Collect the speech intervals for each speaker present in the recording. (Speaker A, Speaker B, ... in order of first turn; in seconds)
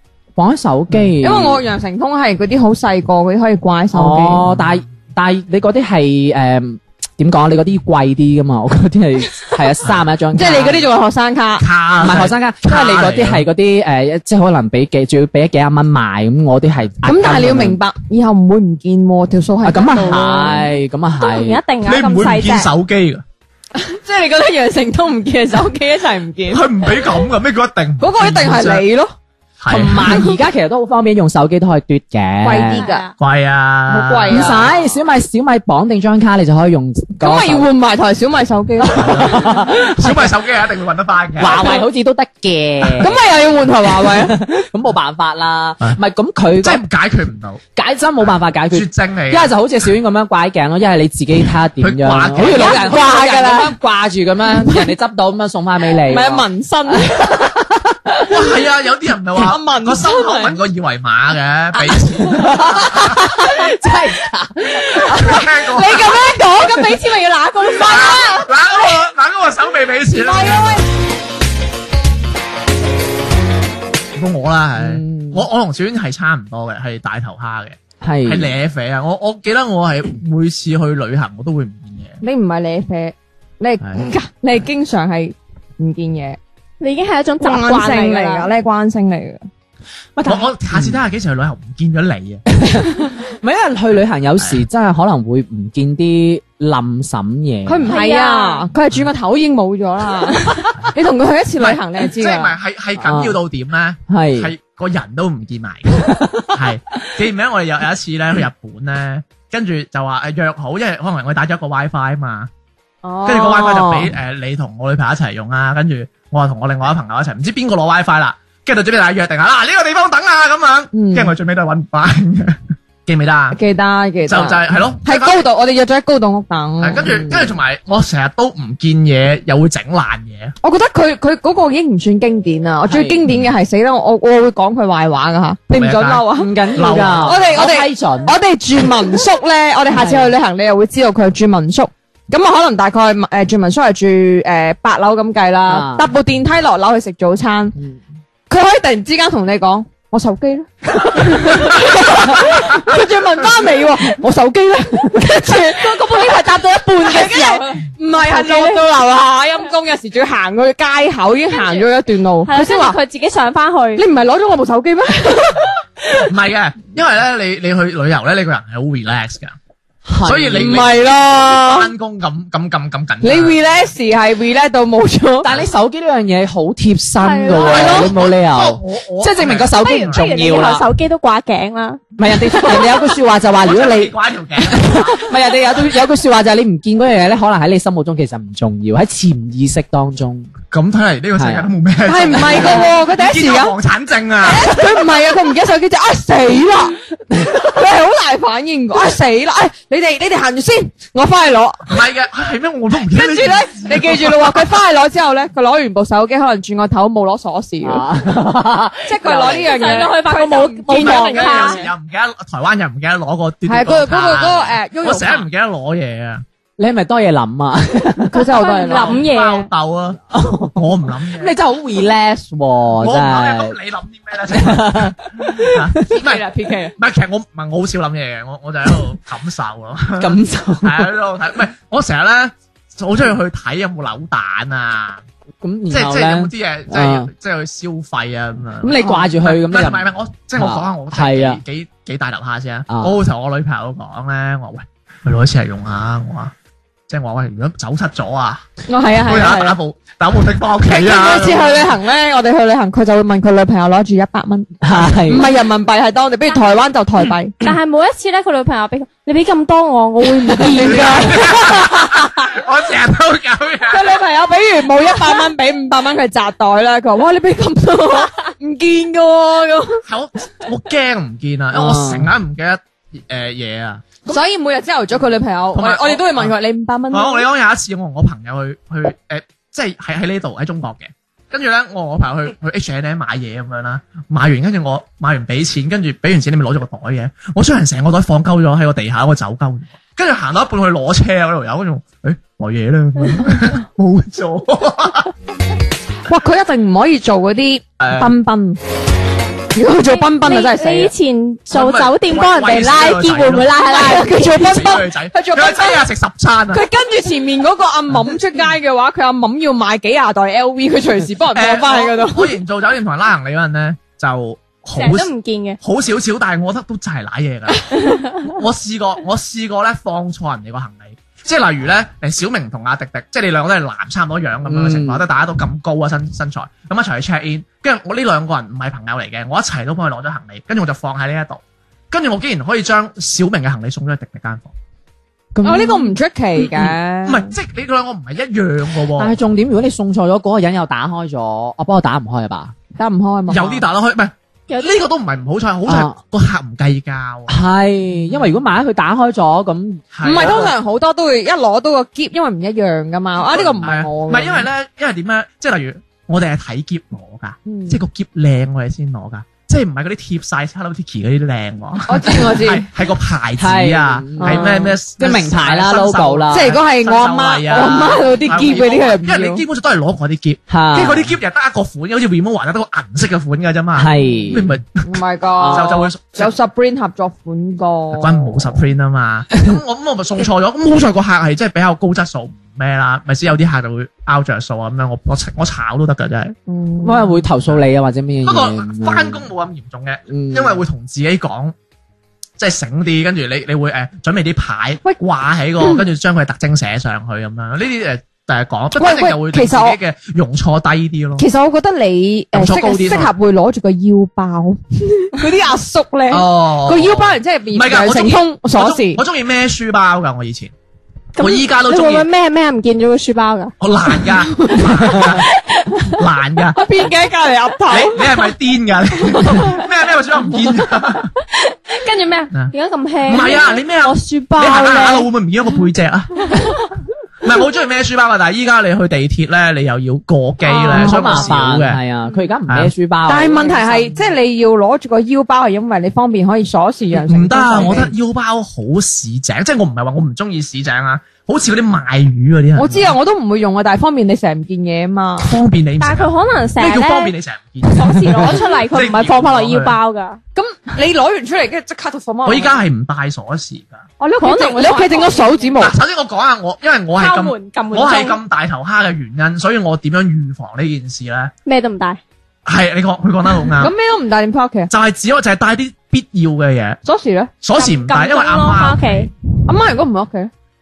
Speaker A: 0.4-1.6, 3.9-10.9, 12.0-17.8, 19.6-21.6, 29.7-32.8, 34.3-37.7, 39.1-40.2, 41.4-43.2, 44.0-46.8, 47.8-56.5, 57.2-58.2, 62.3-65.3, 74.8-75.5, 78.0-78.5, 90.2-91.0, 92.5-97.9, 103.0-103.4, 104.1-104.5, 106.1-106.5, 132.9-133.2, 136.3-138.3, 139.9-140.3, 145.7-146.1, 147.8-148.0, 170.1-170.9, 175.4-180.9, 182.2-184.1, 184.7-190.5, 191.3-191.7, 192.4-192.7, 207.8-209.7, 216.8-218.4, 220.3-223.8, 224.5-226.0, 230.2-231.1, 235.6-237.3, 238.8-240.1, 240.6-241.6, 242.9-243.2, 254.8-255.4, 271.7-272.3, 324.7-325.2, 335.5-336.1, 339.1-342.7, 345.9-346.2, 347.5-350.7, 363.6-366.7, 370.7-371.3, 374.0-374.8, 375.6-376.1, 387.0-389.5, 390.3-390.8, 430.8-434.2
Speaker B: 1.2-4.4, 10.3-11.7, 17.0-20.7, 23.7-27.1, 28.0-29.1, 30.1-30.3, 32.4-33.1, 33.9-34.7, 37.2-39.6, 41.5-41.8, 43.0-44.4, 52.4-53.8, 54.5-54.9, 56.0-57.5, 59.4-60.5, 65.1-67.0, 67.7-68.4, 70.1-70.8, 82.2-86.4, 87.4-89.5, 97.7-102.5, 113.0-114.1, 120.9-121.3, 123.5-127.4, 130.6-147.7, 148.5-163.0, 164.0-166.2, 170.5-171.9, 173.2-175.5, 192.1-193.7, 194.4-201.9, 203.1-208.0, 209.1-211.8, 213.7-215.4, 218.3-219.2, 226.1-226.9, 239.0-239.3, 248.9-249.8, 250.8-257.6, 260.2-262.3, 263.9-270.0, 274.2-277.5, 296.3-298.8, 299.7-301.1, 303.8-306.1, 306.7-312.5, 335.6-337.5, 343.0-343.8, 350.2-354.6, 357.6-358.0, 362.1-362.9, 364.4-364.8, 366.5-369.6, 375.0-378.6, 386.7-387.3, 398.9-400.0, 401.4-409.2, 416.7-418.3, 419.5-419.8, 430.7-431.5, 433.3-438.1, 442.8-445.5, 450.5-452.8, 454.2-455.9, 463.8-464.9, 467.0-467.5, 469.6-470.5
Speaker C: 11.6-13.4, 21.8-23.2, 26.5-28.9, 29.6-30.2, 33.2-34.7, 38.9-41.6, 46.6-47.6, 48.7-49.5, 51.8-53.0, 58.3-63.3, 65.1-66.2, 67.7-70.8, 74.1-82.2, 83.8-84.1, 90.2-92.4, 94.4-94.6, 101.6-112.5, 113.2-123.6, 124.2-125.4, 126.8-130.5, 135.7-137.6, 166.2-169.6, 170.2-173.6, 177.6-180.3, 183.6-185.2, 190.7-194.8, 201.9-204.8, 210.9-216.4, 218.8-220.2, 220.7-221.5, 223.0-235.2, 235.9-246.5, 247.1-248.6, 249.2-251.9, 260.8-264.2, 270.1-274.1, 275.7-276.6, 277.1-295.3, 298.0-298.3, 301.7-306.8, 311.5-315.3, 315.8-334.7, 337.2-339.4, 343.5-347.6, 348.3-348.5, 350.1-350.7, 353.4-376.5, 378.1-386.5, 388.4-391.7, 392.6-401.5, 402.5-403.3, 406.3-410.7, 411.4-412.3, 413.8-415.5, 416.1-416.8, 417.9-421.3, 423.2-426.6, 427.4-432.0, 432.7-432.9, 437.1-443.1, 445.4-450.0, 452.4-454.0, 455.8-461.5, 462.6-463.9, 464.9-467.0, 467.6-469.3
Speaker D: 21.2-22.7, 32.7-33.1, 66.0-68.5, 86.8-88.5, 97.8-98.7, 155.8-156.4, 157.0-157.7, 158.2-158.8, 161.5-161.9, 162.4-164.0, 177.2-178.1, 179.7-182.9, 209.5-211.8, 218.5-219.7, 257.6-261.3, 300.1-304.7, 314.9-315.8, 317.9-318.5, 344.7-345.0, 411.4-413.7, 415.2-416.2, 421.6-425.3, 446.0-447.3, 447.9-450.4, 454.4-455.8, 457.2-458.4, 461.6-462.2, 467.8-469.3